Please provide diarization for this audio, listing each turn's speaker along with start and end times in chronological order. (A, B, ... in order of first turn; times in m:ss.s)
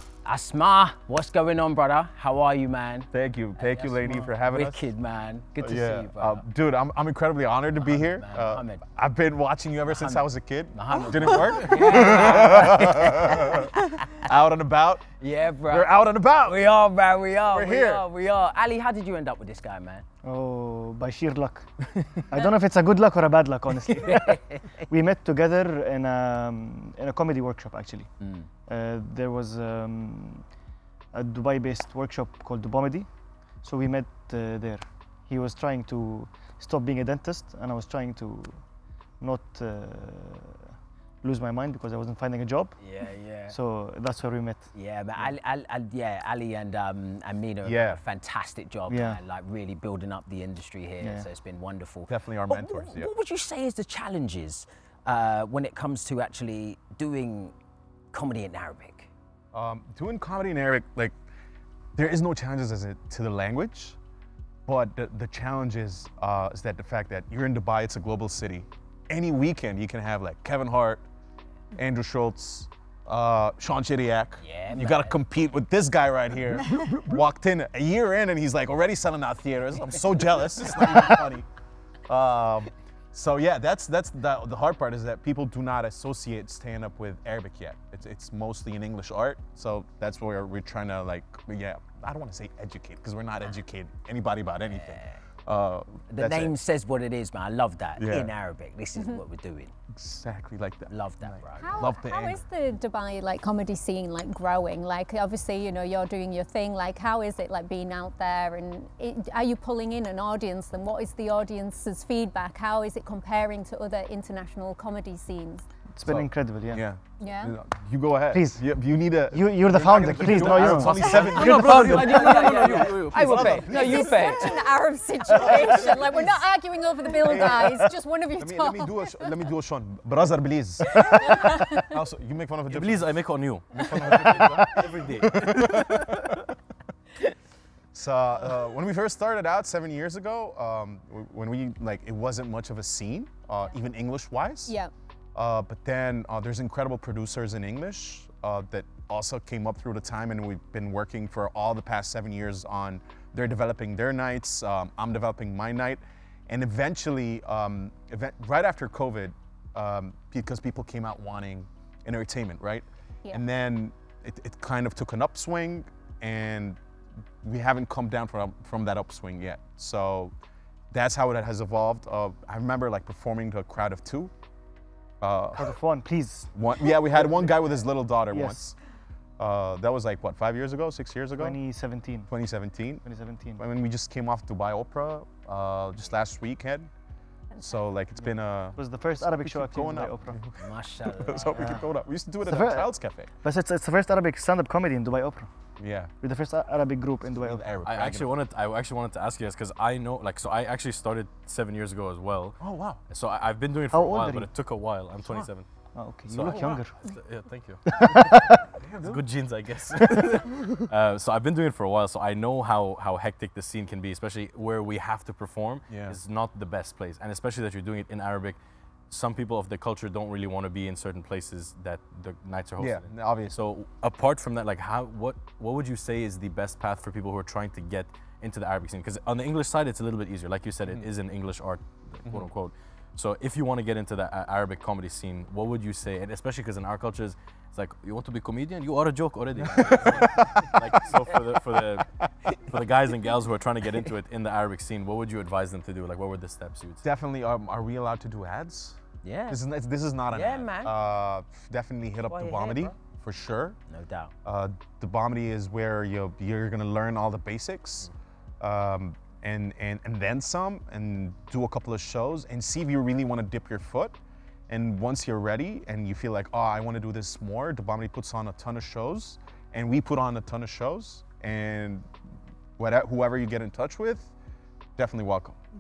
0:00.2-0:06.4 A
0:03.1-0:04.9 B
0:05.6-0:15.0 B
0:07.8-0:08.8 A
0:09.9-0:13.9 A
0:15.2-0:20.0 A
0:15.7-0:16.6 B
0:17.5-0:18.1 B
0:20.2-0:28.1 C
0:24.1-0:24.6 A
0:28.2-0:28.5 A
0:28.7-0:30.4 C
0:31.1-0:33.1 C
0:33.6-0:38.6 C
0:39.2-0:40.7 C
0:41.2-0:42.8 C
0:42.8-0:43.6 A
0:43.5-0:45.3 C
0:44.7-0:57.5 A
0:47.6-0:48.0 B
0:48.9-0:49.2 C
0:51.0-0:51.3 C
0:52.1-0:53.1 B
0:58.1-0:59.1 A
0:59.5-1:01.1 B
1:02.0-1:04.0 B
1:04.7-1:11.0 B
1:11.8-1:21.5 B
1:14.4-1:15.2 A
1:22.1-1:36.6 B
1:34.7-1:35.2 A
1:36.1-1:39.7 A
1:38.0-1:38.3 B
1:39.0-1:39.2 D
1:39.9-1:42.4 B
1:40.9-1:41.9 A
1:41.6-1:55.6 D
1:56.0-1:56.8 C
1:56.1-2:02.1 B
1:57.2-1:57.6 D
1:58.3-1:58.7 C
1:59.3-2:02.2 C
2:00.3-2:03.6 E
2:01.3-2:01.7 D
2:01.4-2:04.6 A
2:03.1-2:04.3 B
2:03.6-2:09.5 D
2:05.3-2:06.3 B
2:07.1-2:13.1 B
2:10.9-2:12.0 D
2:12.7-2:16.4 E
2:13.8-2:16.2 B
2:17.9-2:24.8 B
2:25.4-2:46.8 B
2:47.4-2:50.3 B
2:50.9-2:54.3 B
2:55.2-2:55.8 B
2:55.5-2:57.5 C
2:56.5-2:58.8 B
2:58.3-2:58.6 C
2:59.4-3:01.6 B
3:01.4-3:02.3 C
3:02.3-3:06.9 B
3:03.0-3:03.6 C
3:07.6-3:13.3 B
3:08.2-3:10.4 C
3:10.6-3:11.8 A
3:11.6-3:11.9 C
3:12.4-3:15.5 C
3:15.8-3:16.1 B
3:16.2-3:17.7 C
3:17.3-3:18.4 B
3:17.8-3:25.6 E
3:22.6-3:23.0 B
3:23.9-3:24.5 C
3:26.0-3:27.0 C
3:26.3-3:38.6 E
3:27.9-3:28.6 C
3:28.8-3:29.2 B
3:35.9-3:36.2 B
3:39.1-4:07.0 E
3:42.8-3:43.6 B
3:59.9-4:01.2 B
4:07.0-4:13.8 B
4:09.2-4:09.6 A
4:10.3-4:10.9 A
4:12.3-4:13.0 A
4:13.9-4:14.3 A
4:14.4-4:24.2 B
4:24.7-4:32.1 B
4:32.8-4:34.3 B
4:35.0-4:35.6 B